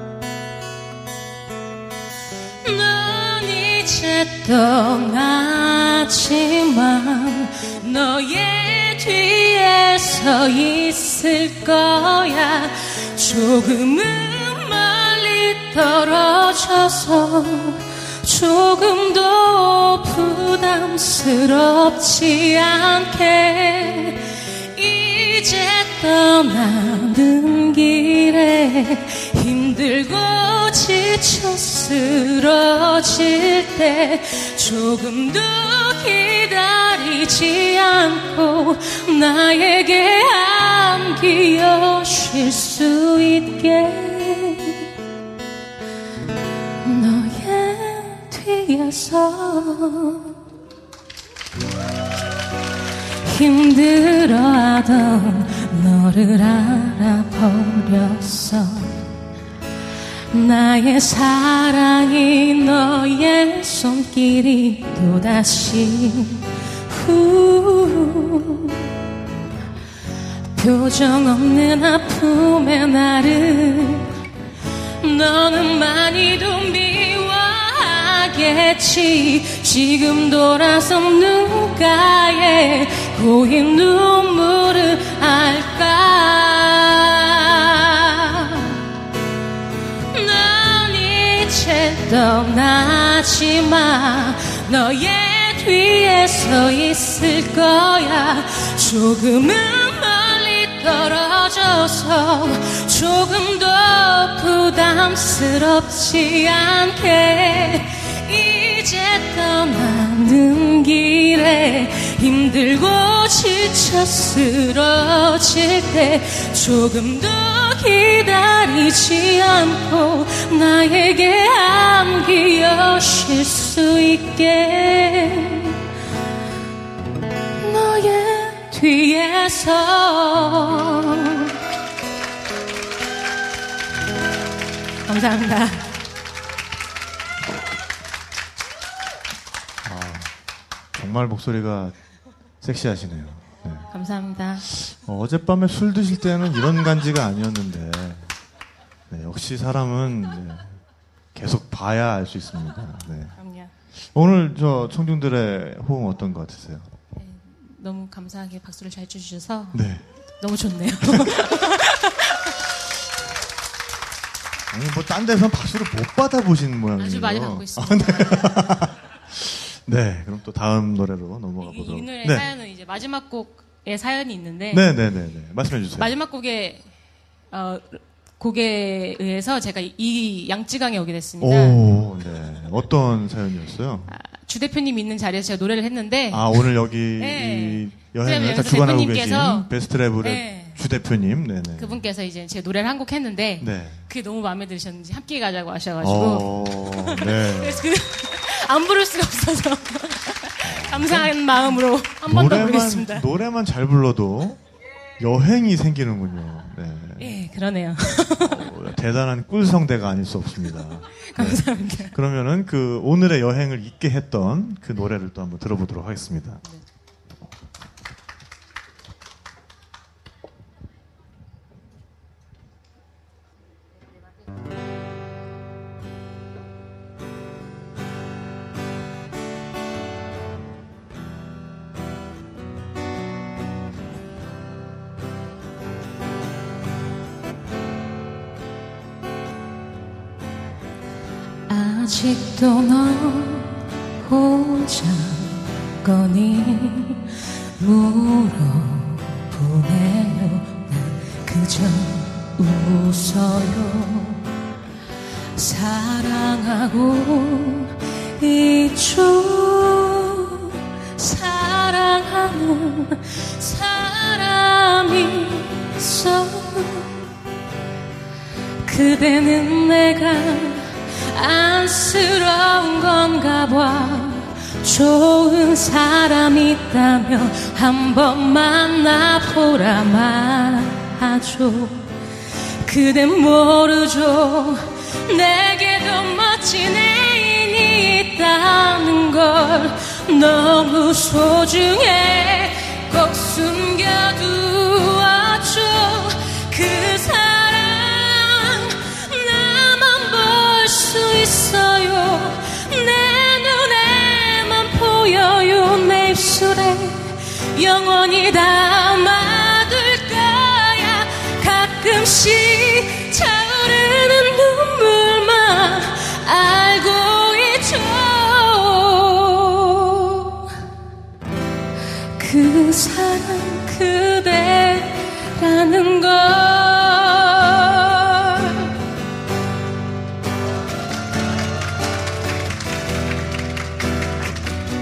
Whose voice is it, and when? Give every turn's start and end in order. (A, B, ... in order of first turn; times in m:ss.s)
0:02.6-0:44.8 A
0:46.8-0:50.3 A
0:53.3-0:59.0 A
1:00.3-1:08.8 A
1:10.6-1:14.1 A
1:15.0-1:28.8 A
1:30.1-2:05.8 A
2:07.6-2:11.5 A
2:15.1-2:15.9 A
2:19.8-2:20.3 B
2:21.0-2:22.0 B
2:22.6-2:23.8 B
2:23.9-2:24.7 A
2:24.7-2:28.2 B
2:29.1-2:30.8 B
2:31.3-2:33.3 B
2:33.4-2:33.7 A
2:34.1-2:36.9 B
2:37.2-2:39.8 A
2:39.7-2:40.0 B
2:40.4-2:42.6 A
2:41.0-2:41.4 B
2:44.7-2:52.5 B
2:47.0-2:48.9 A
2:51.6-2:54.9 A
2:54.7-2:56.1 B
2:56.0-2:56.8 A
2:57.5-3:01.8 A
3:01.4-3:04.1 B
3:04.1-3:09.7 A
3:06.3-3:12.0 B
3:10.2-3:10.8 A
3:11.8-3:23.3 A
3:13.6-3:14.0 B
3:16.0-3:17.9 B
3:20.6-3:21.4 B
3:22.2-3:24.6 B
3:25.2-3:27.4 B
3:27.2-3:28.8 A
3:28.4-3:36.6 B
3:31.2-3:32.1 A
4:01.7-4:14.5 A
4:15.6-4:27.1 A
4:28.9-4:42.0 A
4:42.9-5:20.6 A
5:22.4-5:28.9 A